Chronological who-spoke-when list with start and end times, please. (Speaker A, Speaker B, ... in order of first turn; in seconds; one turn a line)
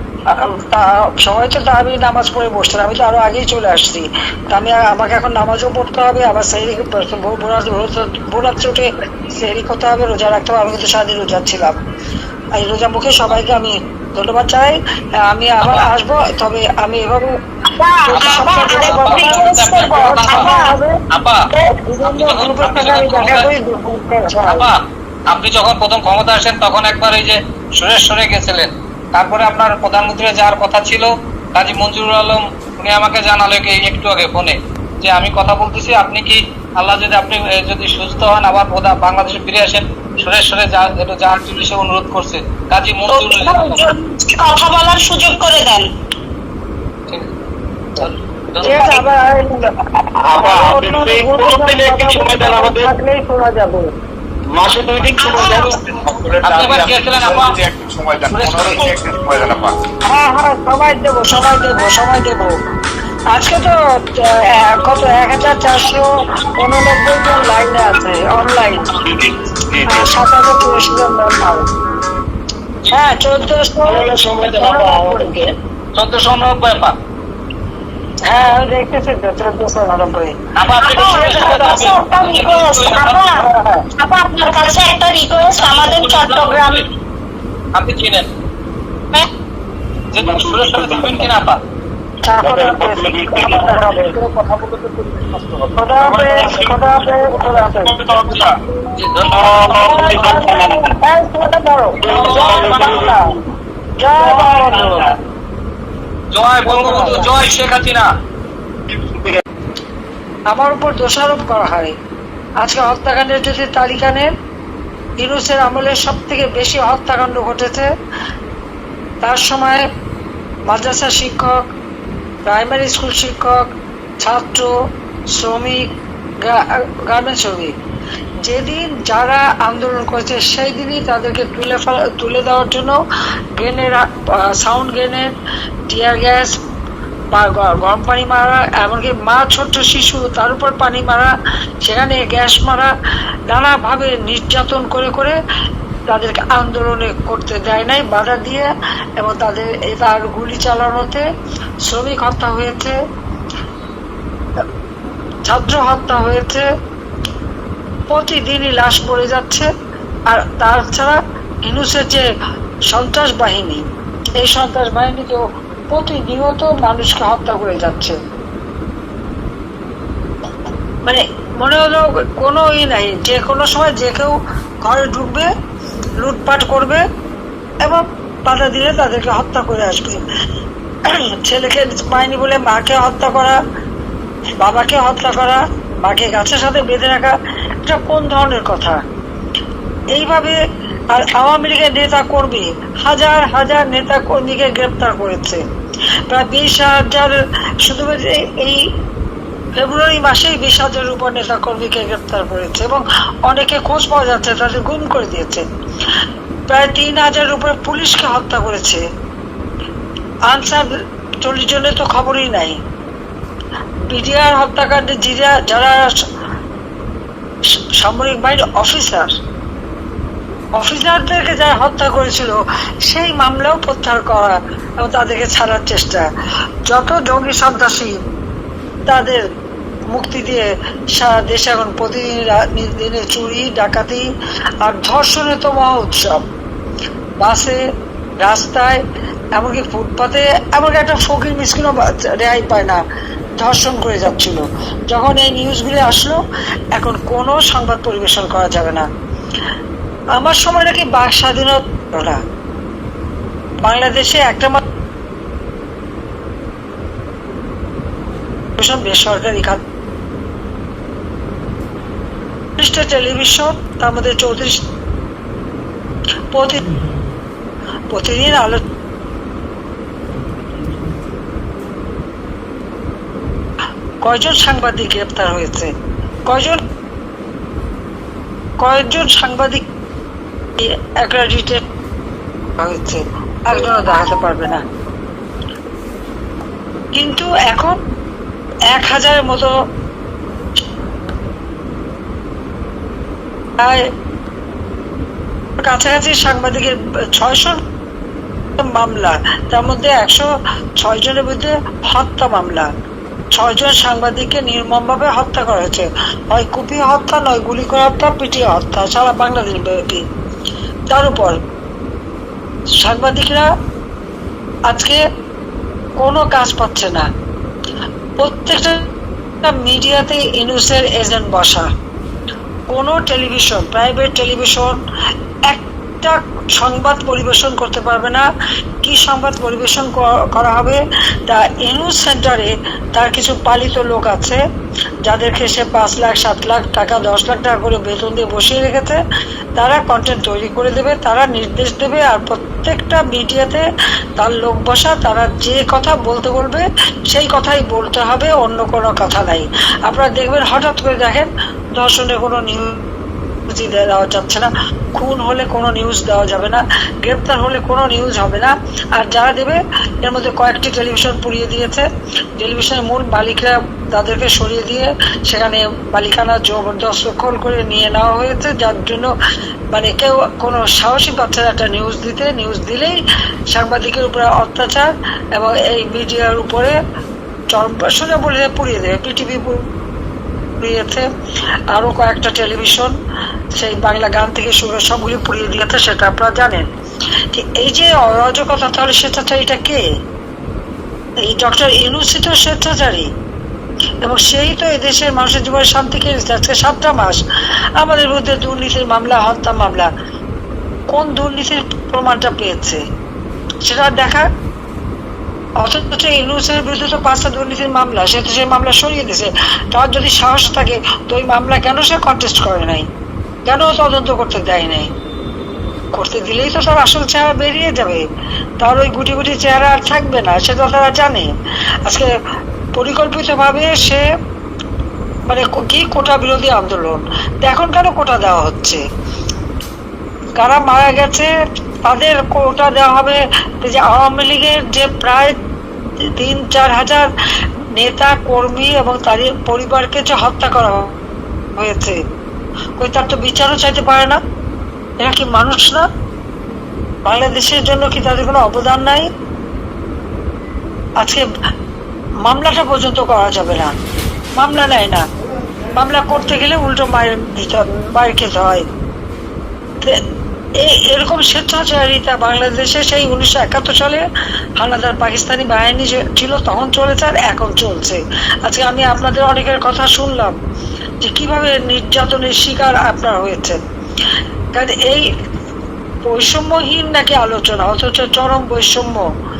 Speaker A: 0.4-11.8
Speaker A: 12.6-17.4
Speaker B: 17.7-20.8
Speaker A: 18.1-20.9
Speaker C: 18.1-20.5
Speaker C: 21.1-21.4
Speaker A: 21.5-24.7
Speaker C: 22.0-23.5
Speaker C: 24.5-24.8
Speaker C: 25.3-43.8
Speaker B: 43.1-45.9
Speaker C: 48.0-49.0
Speaker A: 48.6-53.9
Speaker D: 50.2-52.9
Speaker D: 54.5-56.2
Speaker B: 55.2-55.8
Speaker E: 56.2-59.8
Speaker C: 56.4-57.6
Speaker C: 58.3-59.0
Speaker A: 60.1-62.6
Speaker A: 63.3-68.9
Speaker D: 69.0-70.2
Speaker A: 69.8-71.7
Speaker A: 72.9-75.2
Speaker D: 73.9-75.2
Speaker B: 74.4-75.5
Speaker C: 76.0-77.0
Speaker A: 78.3-80.4
Speaker C: 80.6-83.3
Speaker B: 80.8-86.8
Speaker A: 83.4-83.8
Speaker C: 85.5-86.8
Speaker C: 87.8-88.3
Speaker C: 90.1-91.6
Speaker D: 90.2-91.3
Speaker A: 92.2-94.2
Speaker D: 92.4-94.0
Speaker E: 94.3-96.4
Speaker A: 95.7-98.0
Speaker C: 99.0-100.4
Speaker D: 99.3-100.8
Speaker A: 99.7-103.4
Speaker D: 102.0-103.2
Speaker C: 102.1-103.0
Speaker A: 104.0-105.1
Speaker C: 104.4-105.0
Speaker C: 106.3-108.1
Speaker A: 106.7-107.3
Speaker D: 108.9-109.4
Speaker A: 110.5-112.0
Speaker A: 112.6-114.3
Speaker A: 115.2-117.9
Speaker A: 119.2-119.9
Speaker A: 120.7-121.7
Speaker A: 122.5-124.7
Speaker A: 125.3-127.8
Speaker A: 128.4-133.0
Speaker A: 133.6-135.3
Speaker A: 135.9-136.6
Speaker A: 137.3-142.9
Speaker A: 143.5-145.4
Speaker A: 146.1-151.3
Speaker A: 151.8-153.0
Speaker A: 155.4-156.7
Speaker A: 158.1-159.7
Speaker A: 160.3-162.3
Speaker A: 162.9-163.9
Speaker A: 164.4-168.2
Speaker A: 171.1-175.5
Speaker A: 176.2-177.0
Speaker A: 177.8-180.2
Speaker A: 181.1-183.6
Speaker A: 184.6-189.0
Speaker A: 190.1-190.6
Speaker A: 191.1-195.6
Speaker A: 196.3-198.8
Speaker A: 199.8-205.7
Speaker A: 206.7-209.0
Speaker A: 210.5-212.8
Speaker A: 214.1-216.1
Speaker A: 218.0-219.3
Speaker A: 220.8-226.3
Speaker A: 226.9-228.2
Speaker A: 229.1-229.4
Speaker A: 230.1-234.3
Speaker A: 234.8-236.4
Speaker A: 237.4-237.8
Speaker A: 238.4-239.0
Speaker A: 239.6-243.0
Speaker A: 243.6-246.4
Speaker A: 246.9-249.1
Speaker A: 250.4-252.4
Speaker A: 253.8-254.8
Speaker A: 258.8-259.8
Speaker A: 262.8-264.8
Speaker A: 266.5-267.0
Speaker A: 268.1-268.8
Speaker A: 274.2-275.9
Speaker A: 276.5-276.8
Speaker A: 278.8-279.9
Speaker A: 280.8-281.9
Speaker A: 282.8-284.8
Speaker A: 287.1-288.0
Speaker A: 288.9-289.8
Speaker A: 293.8-294.1
Speaker A: 295.8-297.8
Speaker A: 298.8-302.9
Speaker A: 303.5-310.2
Speaker A: 311.1-311.6
Speaker A: 313.0-313.7
Speaker A: 314.9-315.2
Speaker A: 316.2-317.3
Speaker A: 318.4-319.1
Speaker A: 319.6-321.9
Speaker A: 322.9-325.0
Speaker A: 325.7-328.5
Speaker A: 329.0-334.6
Speaker A: 335.3-339.2
Speaker A: 339.8-353.1
Speaker A: 353.7-369.3
Speaker A: 369.9-377.0
Speaker A: 377.7-379.8
Speaker A: 380.8-381.3
Speaker A: 381.9-383.1
Speaker A: 383.7-386.9
Speaker A: 387.5-390.1
Speaker A: 391.4-393.3
Speaker A: 394.2-397.4
Speaker A: 398.0-400.1
Speaker A: 401.1-403.0
Speaker A: 403.8-404.5
Speaker A: 405.8-413.1
Speaker A: 413.7-415.1
Speaker A: 416.1-418.2
Speaker A: 418.8-421.5
Speaker A: 422.9-424.2
Speaker A: 425.5-429.0
Speaker A: 430.6-431.5
Speaker A: 432.1-435.6
Speaker A: 436.2-437.3
Speaker A: 438.0-441.1
Speaker A: 441.8-442.2
Speaker A: 443.0-444.4
Speaker A: 445.2-446.1
Speaker A: 447.3-449.3
Speaker A: 451.2-451.5
Speaker A: 452.4-453.9
Speaker A: 454.6-455.3
Speaker A: 455.9-458.9
Speaker A: 460.8-464.2
Speaker A: 464.8-470.6
Speaker A: 471.2-473.8
Speaker A: 474.8-475.3
Speaker A: 476.3-479.3